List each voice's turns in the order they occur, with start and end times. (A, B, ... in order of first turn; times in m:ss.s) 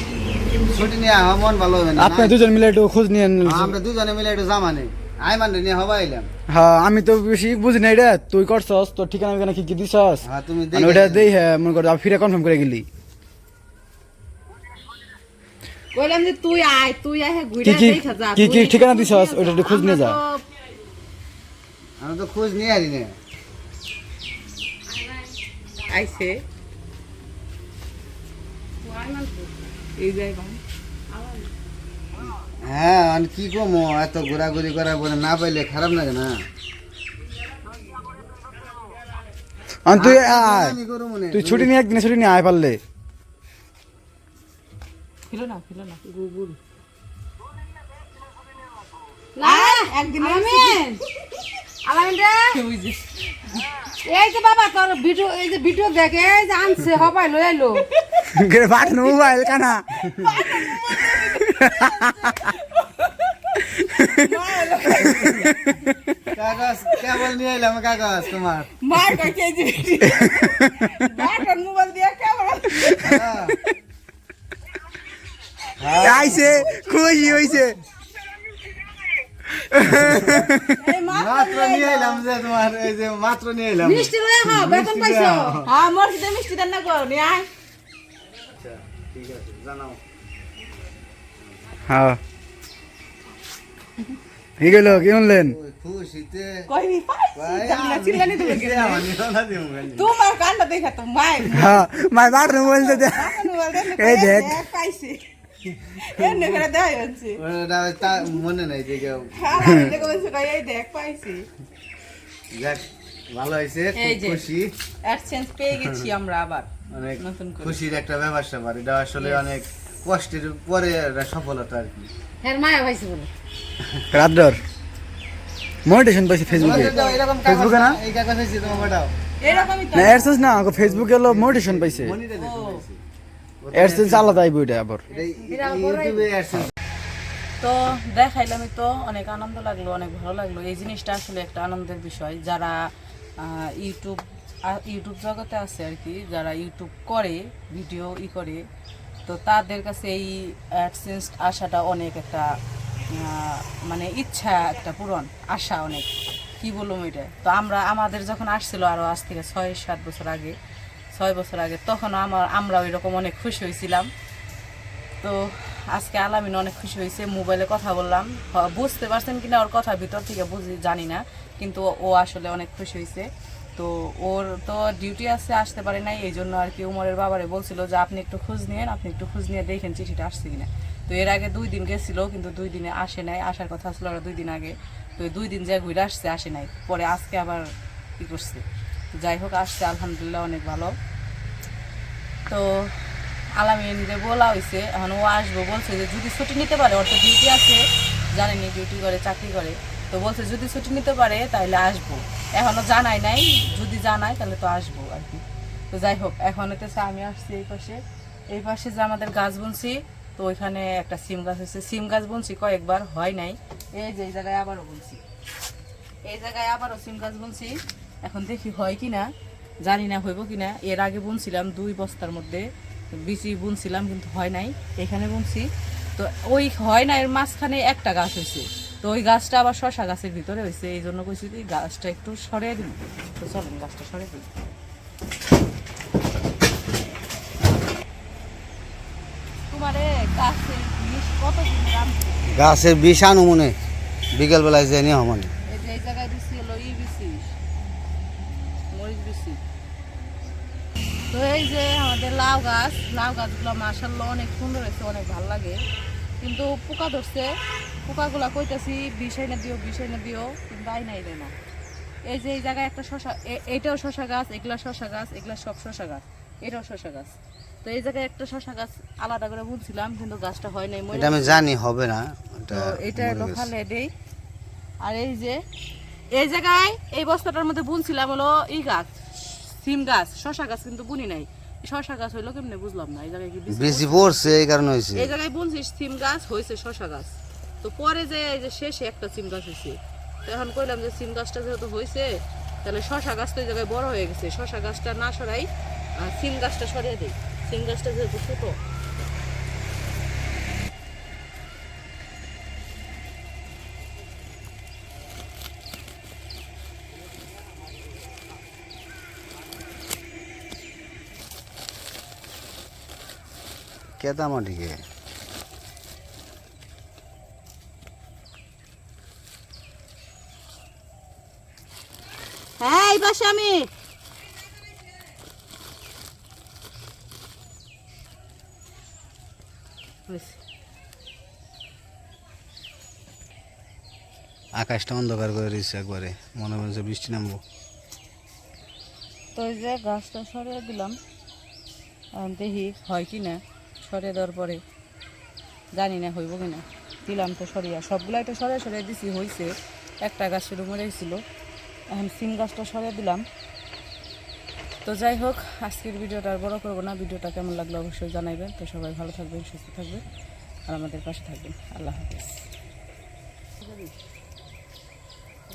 0:00.7-0:02.4 A
0:02.0-0:03.8 B
0:03.4-0:06.3 A
0:06.5-0:12.8 B
0:10.2-0:11.3 A
0:15.9-0:20.4 C
0:17.6-0:20.2 B
0:22.0-0:23.1 A
0:24.9-0:25.3 C
0:25.9-0:26.4 C
0:28.8-0:30.6 C
0:31.1-0:31.4 C
0:32.6-0:36.4 A
0:39.8-0:40.8 B
0:39.9-0:41.7 A
0:41.3-0:42.8 B
0:45.3-0:46.6 C
0:49.4-0:51.0 D
0:49.4-0:51.0 C
0:51.8-0:52.5 D
0:52.5-0:53.0 C
0:54.1-0:57.8 D
0:56.0-0:58.3 C
0:58.3-1:02.5 B
0:58.8-1:05.8 C
1:03.7-1:04.3 B
1:05.0-1:05.5 B
1:06.3-1:08.7 A
1:08.8-1:13.2 C
1:10.0-1:10.7 B
1:13.0-1:13.6 A
1:15.8-1:16.7 A
1:15.8-1:17.6 C
1:16.0-1:17.8 B
1:19.5-1:20.8 B
1:19.9-1:20.5 A
1:20.8-1:22.3 C
1:21.1-1:25.7 A
1:23.8-1:25.6 D
1:24.0-1:24.4 C
1:25.6-1:27.5 C
1:28.4-1:30.0 A
1:31.9-1:32.2 B
1:34.6-1:35.6 B
1:34.6-1:36.7 A
1:36.7-1:39.1 C
1:37.3-1:40.1 A
1:39.9-1:45.2 C
1:41.5-1:44.6 B
1:45.9-1:47.4 C
1:47.4-1:49.9 A
1:49.3-1:51.5 C
1:52.5-1:54.7 A
1:53.9-1:54.4 C
1:55.0-1:57.8 C
1:55.7-1:56.0 A
1:56.9-2:02.1 A
1:59.2-1:59.6 C
2:02.4-2:03.3 C
2:04.1-2:04.6 B
2:05.8-2:08.0 B
2:06.6-2:09.1 A
2:06.6-2:07.2 C
2:08.6-2:10.5 C
2:09.9-2:12.2 B
2:10.3-2:13.0 A
2:12.3-2:12.8 C
2:13.6-2:14.5 A
2:13.7-2:15.0 B
2:15.1-2:16.7 A
2:15.1-2:16.2 C
2:17.6-2:22.8 C
2:23.4-2:28.6 C
2:29.2-2:32.5 C
2:33.1-2:36.1 C
2:36.6-2:40.6 C
2:41.1-2:44.1 C
2:45.2-3:08.6 C
3:09.2-3:10.9 C
3:12.5-3:28.0 C
3:28.5-3:35.2 C
3:36.2-3:39.3 C
3:39.8-3:54.4 C
3:59.7-4:02.5 C
4:02.5-4:03.8 A
4:04.3-4:05.5 A
4:05.7-4:07.5 C
4:08.9-4:09.6 C
4:11.3-4:15.8 C
4:16.4-4:17.5 C
4:18.0-4:21.5 C
4:22.3-4:27.3 C
4:27.8-4:31.6 C
4:31.1-4:33.7 A
4:32.7-4:34.1 C
4:35.0-4:35.6 C
4:36.3-4:44.5 C
4:43.7-4:45.3 A
4:45.1-4:58.8 C
5:14.2-5:15.0 A
5:22.8-5:23.9 C
5:30.3-5:30.6 C
5:34.8-5:37.6 A
5:39.5-5:41.2 C
5:42.4-5:44.8 C
5:45.9-5:51.4 C
5:52.1-5:53.4 C
5:55.0-6:00.2 C
6:00.9-6:02.6 C